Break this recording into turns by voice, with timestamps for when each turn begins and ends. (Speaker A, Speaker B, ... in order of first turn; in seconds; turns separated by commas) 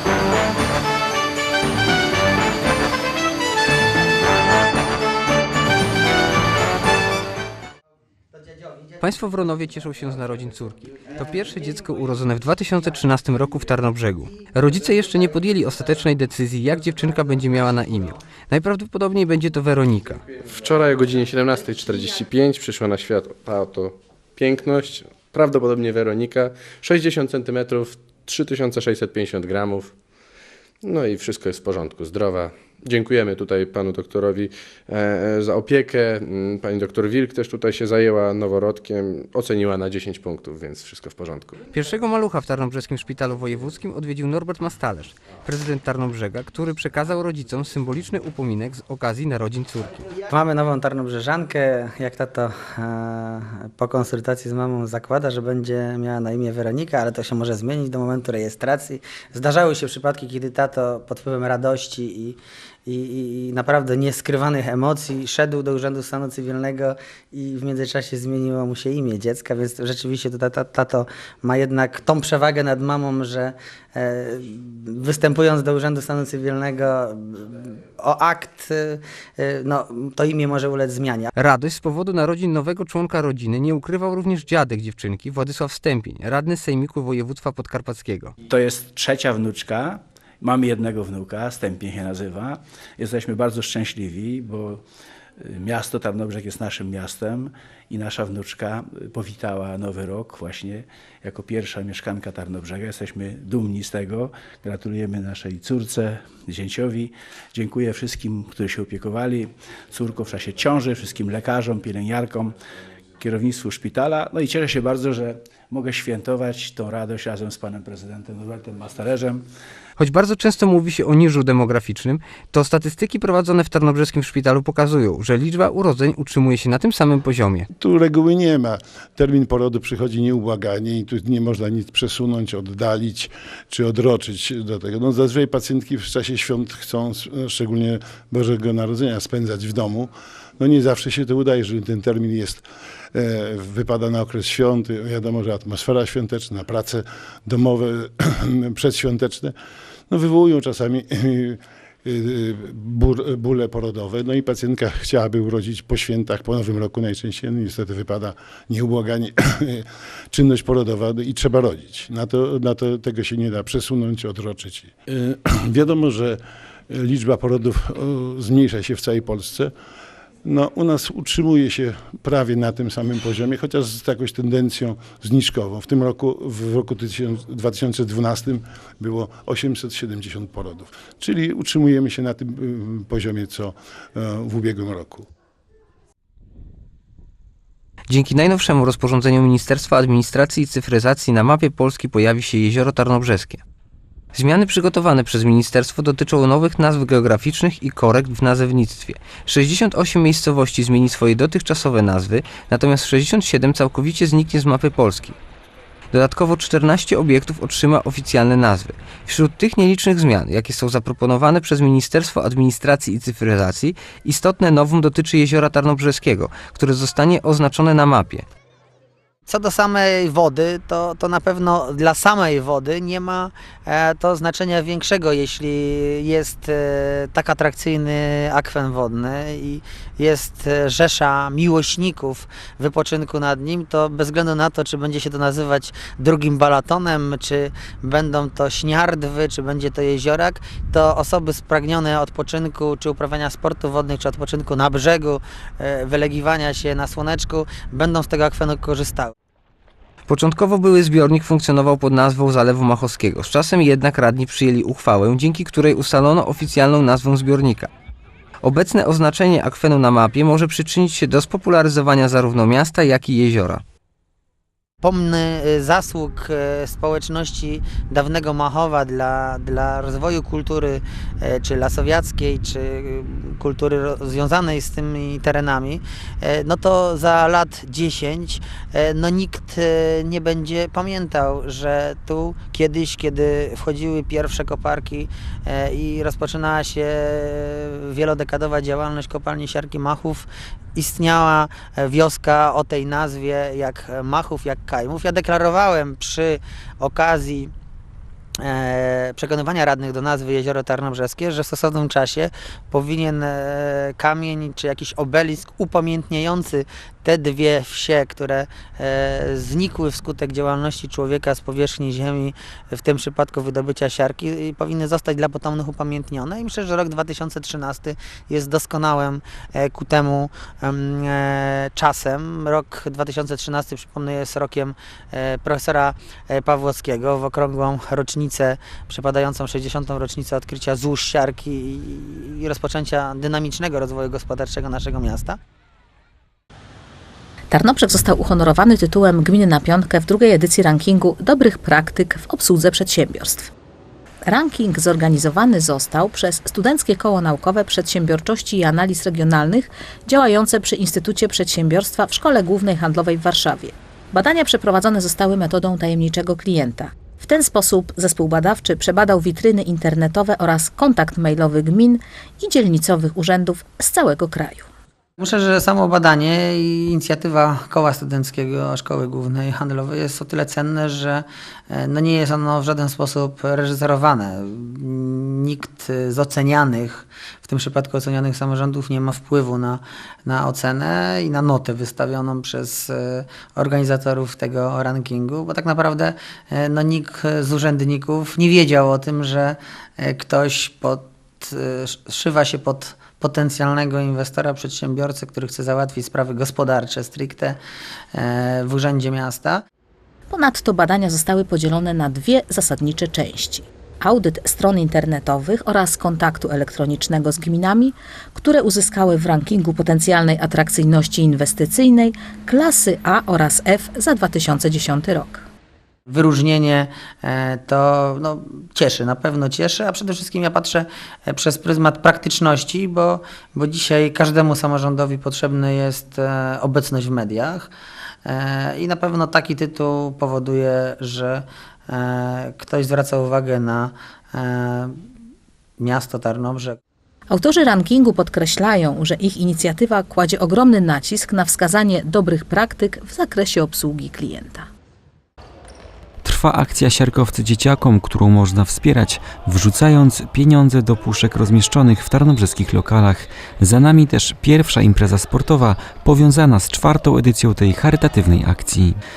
Speaker A: 9.0-20.2, Speaker B: 20.3-29.9, Speaker B: 30.8-41.6, Speaker A: 41.7-50.1, Speaker C: 50.2-81.3, Speaker A: 81.4-88.3, Speaker D: 88.5-94.8, Speaker D: 95.4-112.5, Speaker D: 113.2-119.5, Speaker A: 120.0-127.7, Speaker E: 127.7-149.5, Speaker E: 150.1-169.7, Speaker E: 170.4-185.3, Speaker A: 188.1-193.6, Speaker A: 194.3-205.4, Speaker A: 206.1-218.4, Speaker C: 219.5-249.3, Speaker A: 250.3-257.9, Speaker A: 258.6-263.8, Speaker C: 265.0-297.7, Speaker C: 298.6-335.6, Speaker F: 337.7-343.7, Speaker F: 344.5-364.9, Speaker C: 365.4-397.8, Speaker C: 398.3-399.8, Speaker F: 400.5-415.6, Speaker C: 416.3-427.9, Speaker C: 428.5-435.1, Speaker C: 436.0-437.0, Speaker F: 437.5-444.9, Speaker G: 446.4-459.2